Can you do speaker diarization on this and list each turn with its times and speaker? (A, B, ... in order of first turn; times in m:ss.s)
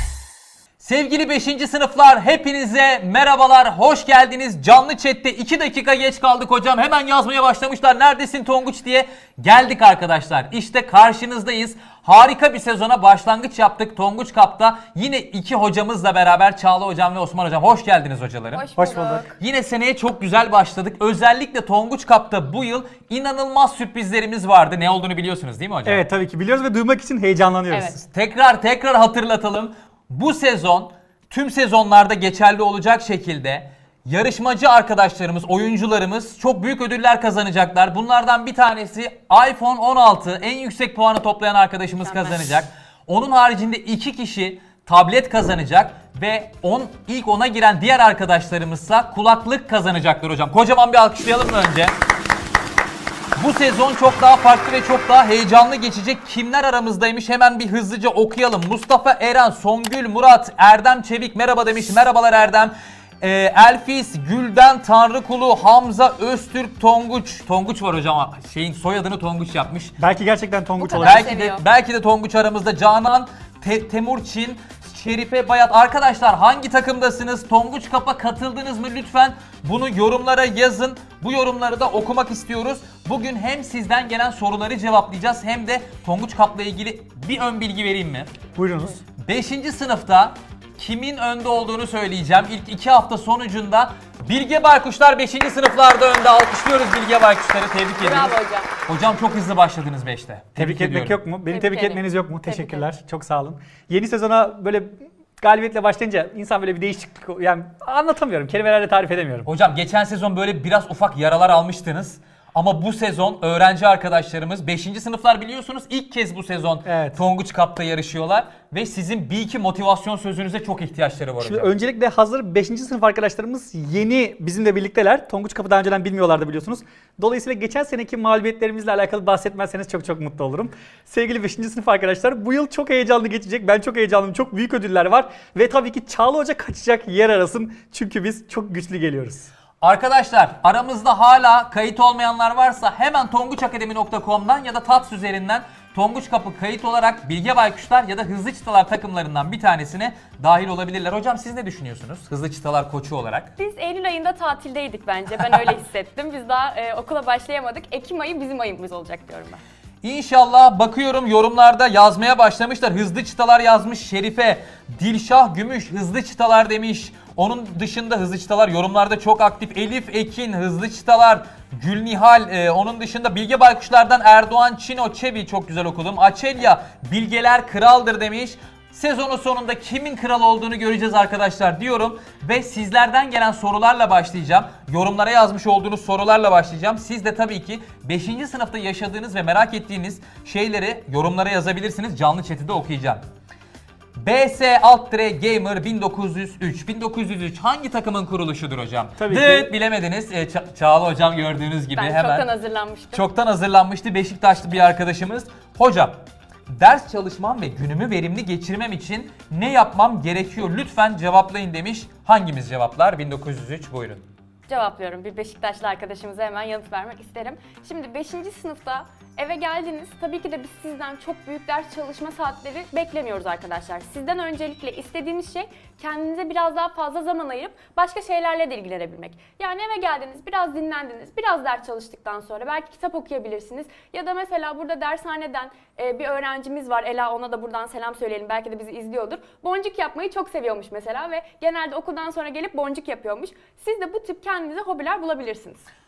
0:00.8-0:18.6 A
0:18.5-0:19.4 B
0:18.8-0:19.3 C
0:19.4-0:26.0 A
0:25.9-0:28.0 C
0:27.7-0:28.0 B
0:28.0-0:52.0 A
0:42.0-0:42.5 B
0:53.4-1:09.9 A
1:10.0-1:11.2 C
1:10.8-1:11.6 B
1:11.0-1:28.3 A
1:28.6-1:29.0 C
1:29.2-1:38.3 A
1:38.0-1:38.7 B
1:38.9-1:41.2 A
1:40.6-1:49.5 C
1:41.5-1:42.8 B
1:49.4-2:01.7 A
1:56.8-1:57.2 C
2:01.4-2:19.5 C
2:19.8-2:33.5 A
2:33.6-2:39.6 B
2:40.0-3:13.2 A
3:14.2-3:22.4 A
3:19.2-3:19.7 C
3:22.0-3:23.2 B
3:23.1-3:34.2 A
3:34.7-4:05.8 B